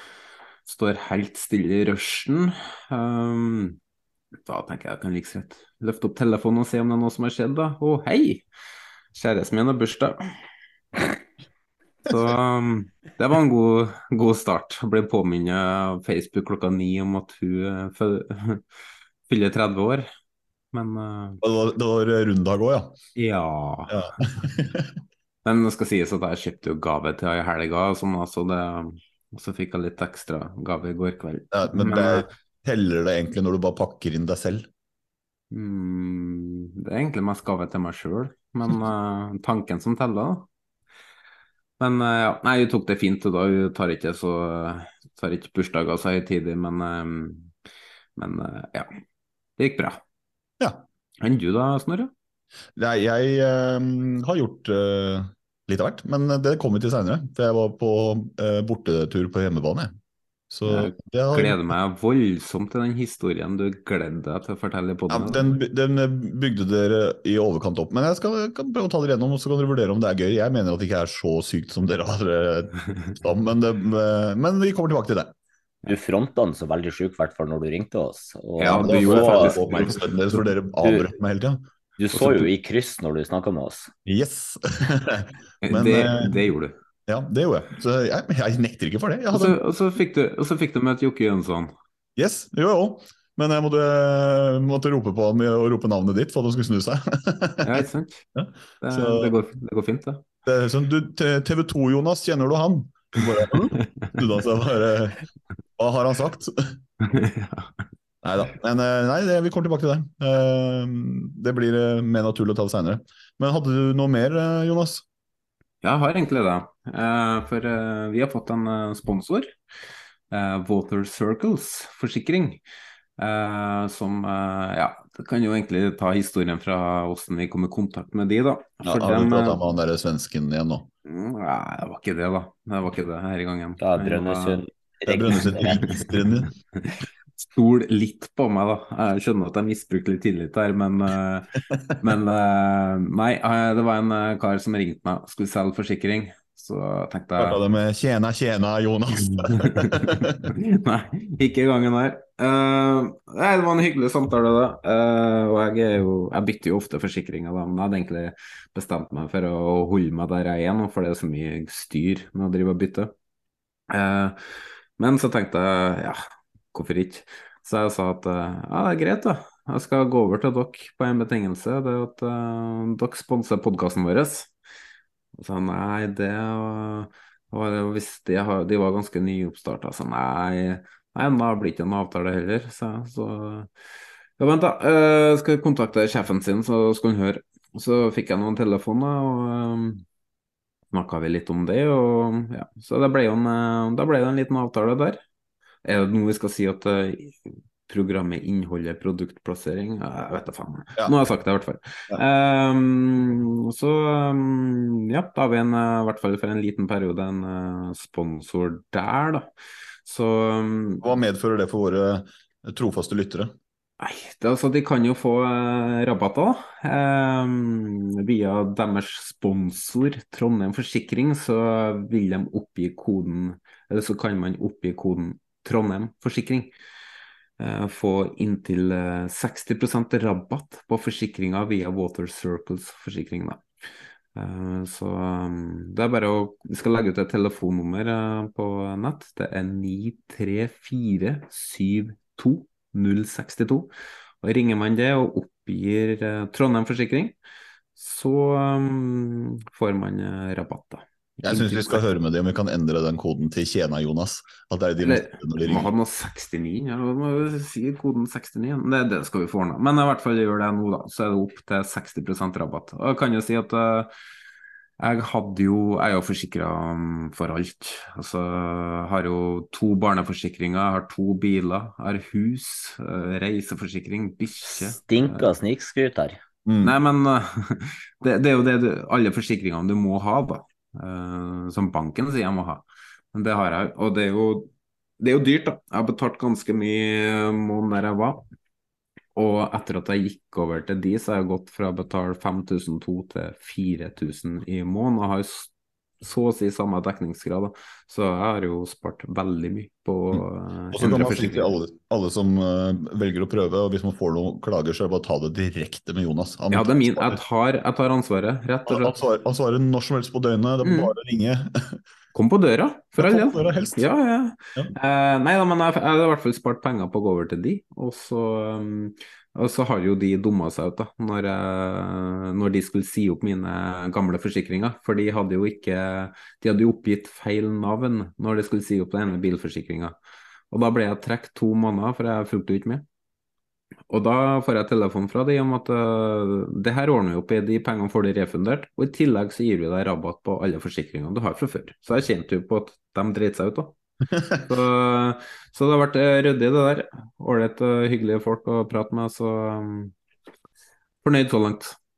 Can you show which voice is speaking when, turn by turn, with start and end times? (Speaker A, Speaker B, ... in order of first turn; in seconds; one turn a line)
Speaker A: 0.7-3.8
Speaker A: 4.5-8.4
Speaker A: 9.1-10.2
Speaker A: 12.1-18.6
Speaker A: 19.3-20.1
Speaker A: 20.7-21.4
Speaker B: 21.4-23.0
Speaker A: 23.2-24.1
Speaker B: 23.9-24.9
Speaker A: 25.4-32.3
Speaker B: 31.5-34.7
Speaker A: 35.5-40.5
Speaker A: 41.8-47.5
Speaker A: 48.2-48.9
Speaker A: 49.6-50.0
Speaker A: 51.2-52.1
Speaker B: 52.8-59.9
Speaker B: 60.5-61.6
Speaker A: 60.6-65.5
Speaker B: 65.1-75.3
Speaker C: 75.9-79.9
Speaker A: 78.6-80.0
Speaker B: 78.6-81.6
Speaker C: 80.8-81.1
Speaker C: 82.0-83.9
Speaker A: 82.2-82.4
Speaker B: 84.1-86.4
Speaker A: 85.6-86.7
Speaker B: 87.1-89.6
Speaker A: 89.3-91.7
Speaker B: 92.2-97.8
Speaker A: 97.6-98.2
Speaker B: 98.4-99.3
Speaker A: 98.8-100.2
Speaker B: 100.4-105.2
Speaker B: 105.8-106.8
Speaker A: 107.0-107.7
Speaker B: 108.2-115.0
Speaker A: 115.8-119.5
Speaker A: 120.3-122.6
Speaker A: 123.2-129.6
Speaker B: 128.8-130.9
Speaker A: 131.1-134.6
Speaker C: 133.8-135.9
Speaker B: 135.1-136.5
Speaker A: 137.4-147.6
Speaker B: 147.4-150.5
Speaker A: 149.2-163.1
Speaker A: 163.9-164.4
Speaker A: 165.0-166.2
Speaker A: 166.7-174.5
Speaker A: 175.4-183.7
Speaker A: 184.4-190.0
Speaker A: 190.9-195.2
Speaker A: 195.8-209.5
Speaker A: 210.1-211.0
Speaker B: 211.0-213.5
Speaker A: 214.0-226.7
Speaker A: 227.6-233.6
Speaker A: 234.4-243.9
Speaker A: 244.4-247.3
Speaker A: 247.9-252.1
Speaker B: 251.4-255.9
Speaker A: 255.0-264.1
Speaker A: 265.0-275.4
Speaker C: 274.7-276.4
Speaker B: 276.6-276.9
Speaker A: 276.8-288.4
Speaker A: 289.4-301.7
Speaker B: 300.3-307.4
Speaker A: 306.7-309.1
Speaker B: 308.9-312.0
Speaker A: 310.8-311.1
Speaker A: 312.3-330.1
Speaker B: 313.2-314.1
Speaker A: 330.7-333.1
Speaker A: 334.1-343.9
Speaker A: 344.6-350.1
Speaker A: 351.2-352.0